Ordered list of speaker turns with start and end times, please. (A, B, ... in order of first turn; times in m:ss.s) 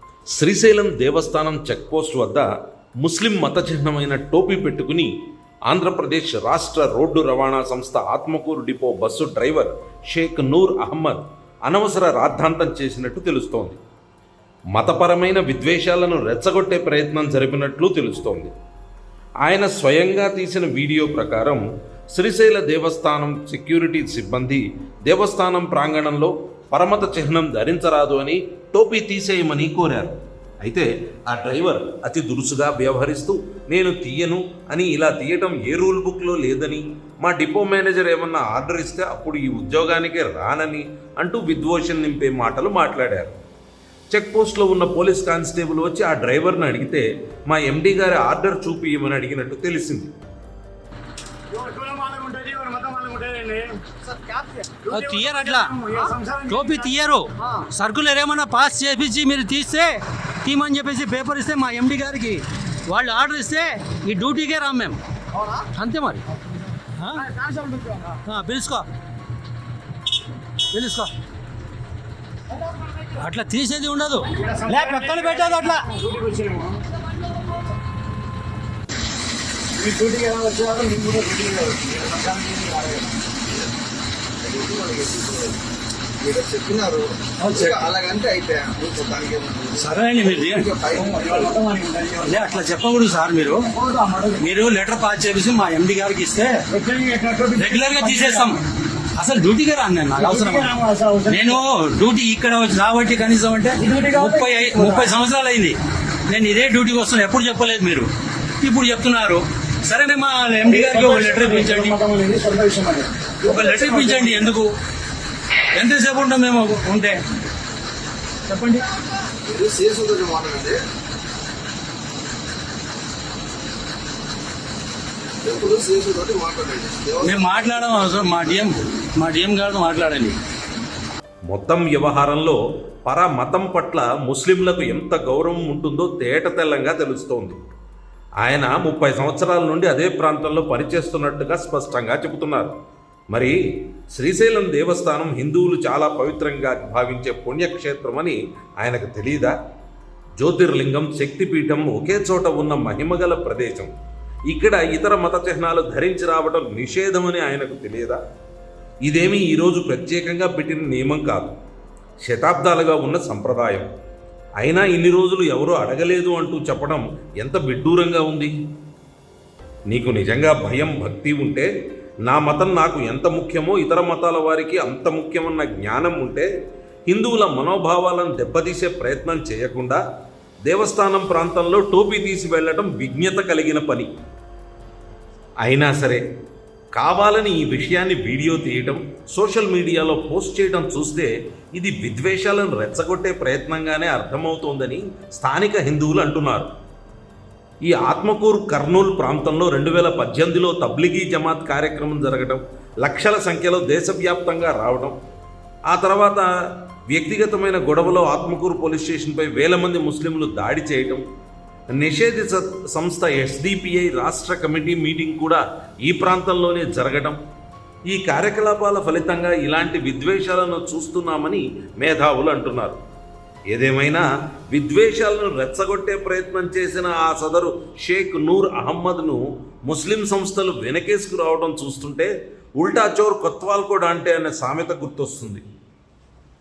0:00.3-0:02.4 A
0:03.0-0:05.1 A
0:05.7-0:13.8 A
0:14.7-0:18.5 A
0:19.4-0:30.1 A
0:30.6-0:43.4 A
0:44.1-0:50.1 A
0:51.5-0:57.6 B
0:54.9-1:05.0 C
1:05.4-1:05.6 B
1:05.7-1:06.2 C
1:07.0-1:07.3 C
1:07.2-1:08.2 B
1:08.2-1:08.9 C
1:10.7-1:11.1 C
1:13.2-1:15.9 C
1:14.3-1:16.8 B
1:19.7-1:23.3 B
1:24.4-1:25.6 D
1:26.2-1:31.6 D
1:27.4-1:27.8 C
1:29.8-1:30.7 C
1:31.0-1:32.6 B
1:32.2-1:33.7 C
1:33.7-1:34.4 B
1:34.4-1:36.6 C
1:36.7-1:38.5 B
1:37.6-1:38.6 C
1:39.2-1:40.7 C
1:40.2-1:41.6 B
1:41.2-1:48.1 C
1:43.8-1:45.1 B
1:48.6-1:52.0 C
1:50.7-1:54.5 B
1:53.4-1:54.7 C
1:55.7-1:57.2 C
1:58.5-1:58.8 C
1:59.4-2:00.8 D
2:05.4-2:08.7 D
2:07.2-2:10.4 C
2:11.5-2:17.6 A
2:18.4-2:22.7 A
2:23.3-2:23.6 A
2:24.1-2:29.5 A
2:30.4-2:33.9 A
2:34.5-2:38.2 A
2:39.1-2:41.6 A
2:42.2-2:43.9 A
2:44.6-2:48.5 A
2:49.9-2:51.7 A
2:52.2-2:56.5 A
2:57.1-3:00.0 A
3:00.7-3:04.1 A
3:05.6-3:06.2 A
3:06.9-3:16.7 A
3:17.9-3:25.1 A
3:25.9-3:26.4 A
3:27.1-3:31.2 A
3:32.0-3:37.4 A
3:38.1-3:43.0 A
3:43.7-3:55.6 A